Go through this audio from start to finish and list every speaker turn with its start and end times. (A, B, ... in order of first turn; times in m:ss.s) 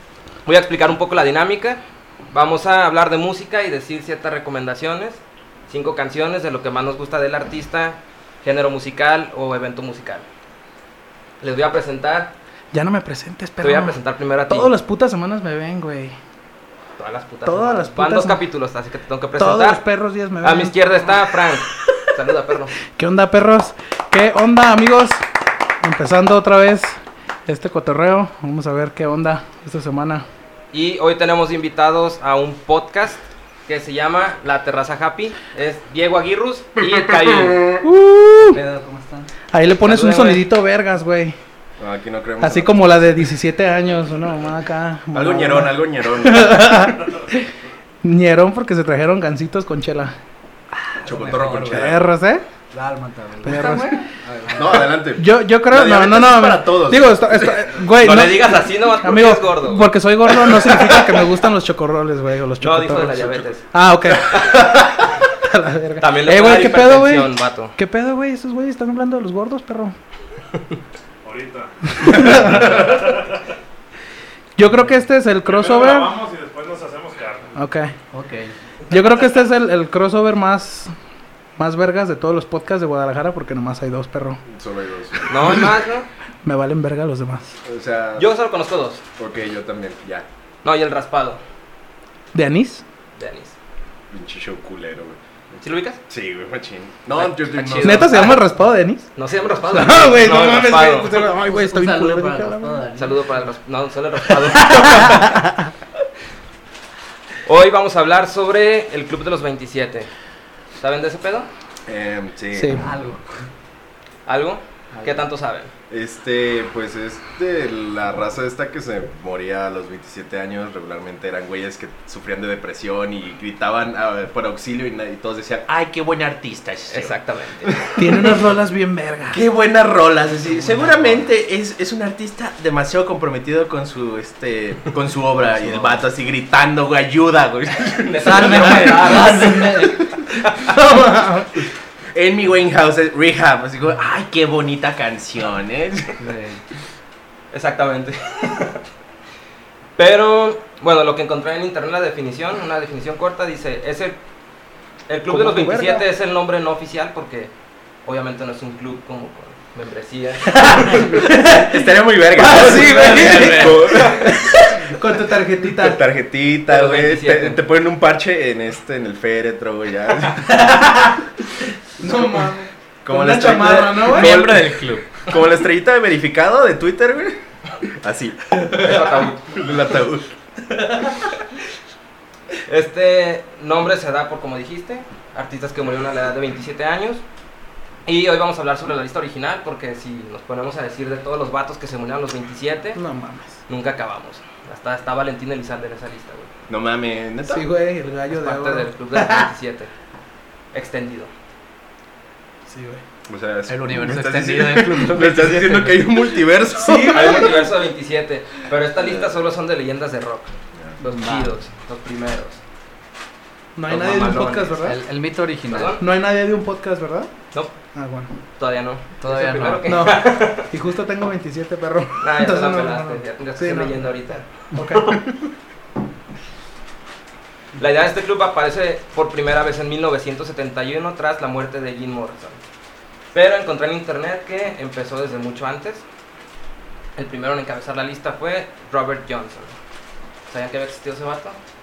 0:00.5-0:01.8 A
0:02.3-0:10.3 A
0:11.4-0:12.4 A
0:12.7-0:14.0 B
0:13.6-0:14.7 A
0:14.5-0:16.2 B
0:17.0-0:19.8 A
0:17.4-0:18.4 B
0:19.4-0:21.2 B
0:20.4-0:22.8 A
0:22.9-0:25.2 B
0:25.8-0:30.3 B
0:30.7-0:37.7 A
0:37.8-0:38.6 B
0:38.5-0:39.3 C
0:39.5-0:41.4 B
0:39.8-0:40.5 A
0:41.8-0:43.0 D
0:42.4-0:47.5 B
0:45.1-0:46.9 D
0:48.0-0:50.2 B
0:50.9-0:51.9 C
0:51.0-0:52.1 D
0:51.7-0:52.4 B
0:52.7-0:54.9 C
0:53.4-0:54.1 B
0:54.5-0:57.4 D
0:54.6-1:09.9 B
0:57.5-1:01.4 A
1:02.6-1:05.0 A
1:06.0-1:07.8 A
1:11.2-1:13.4 E
1:12.0-1:13.0 B
1:14.6-1:16.2 B
1:15.4-1:17.6 E
1:17.6-1:17.9 B
1:18.1-1:18.5 C
1:18.9-1:20.9 B
1:21.6-1:24.4 B
1:24.5-1:25.6 D
1:25.2-1:25.6 B
1:25.3-1:26.1 A
1:26.4-1:27.5 B
1:27.6-1:28.3 D
1:28.2-1:29.0 A
1:29.2-1:30.3 D
1:30.6-1:31.4 A
1:32.3-1:32.8 B
1:33.2-1:33.6 A
1:34.1-1:35.2 D
1:35.6-1:36.0 A
1:36.1-1:38.2 D
1:37.2-1:38.2 C
1:37.7-1:38.4 A
1:37.8-1:39.1 B
1:39.2-1:41.3 A
1:39.7-1:42.8 B
1:41.5-1:43.4 C
1:43.0-1:45.3 A
1:44.5-1:45.7 B
1:47.4-1:50.1 A
1:50.8-1:51.5 A
1:51.9-1:52.8 D
1:52.5-1:52.8 B
1:52.8-1:53.4 C
1:54.3-1:55.7 A
1:54.9-1:55.2 C
1:55.9-2:08.5 D
2:06.9-2:07.8 A
2:08.0-2:09.4 B
2:09.3-2:18.8 D
2:15.5-2:16.0 C
2:18.0-2:20.7 A
2:18.2-2:20.0 C
2:18.3-2:19.8 B
2:20.7-2:21.6 B
2:22.1-2:26.2 D
2:26.2-2:26.6 C
2:27.5-2:28.8 A
2:30.0-2:34.2 A
2:35.1-2:37.5 A
2:35.3-2:36.1 B
2:38.0-2:41.2 A
2:40.5-2:41.8 B
2:41.1-2:44.7 D
2:42.4-2:46.0 B
2:42.4-2:44.0 C
2:45.6-2:50.7 D
2:46.7-2:47.6 A
2:50.6-2:51.1 B
2:52.0-2:54.4 B
2:52.0-2:52.4 D
2:53.0-3:00.3 D
2:54.0-2:55.1 C
2:58.7-2:59.6 A
3:02.6-3:07.2 A
3:08.1-3:13.0 A
3:13.0-3:13.6 B
3:13.7-3:16.5 A
3:16.7-3:17.7 D
3:17.5-3:19.5 B
3:18.3-3:19.9 A
3:20.7-3:21.3 A
3:22.7-3:23.0 B
3:23.3-3:27.6 D
3:23.7-3:26.1 C
3:26.8-3:27.7 B
3:27.0-3:32.6 A
3:31.0-3:31.5 C
3:33.8-3:35.0 B
3:33.9-3:34.8 A
3:34.8-3:36.0 C
3:35.7-3:36.0 A
3:36.0-3:37.3 B
3:38.0-3:38.3 B
3:38.6-3:40.7 A
3:39.2-3:39.9 C
3:39.9-3:45.5 B
3:42.2-3:45.2 A
3:47.8-3:52.6 A
3:53.3-3:56.0 A
3:57.2-3:59.7 A
4:00.5-4:01.6 A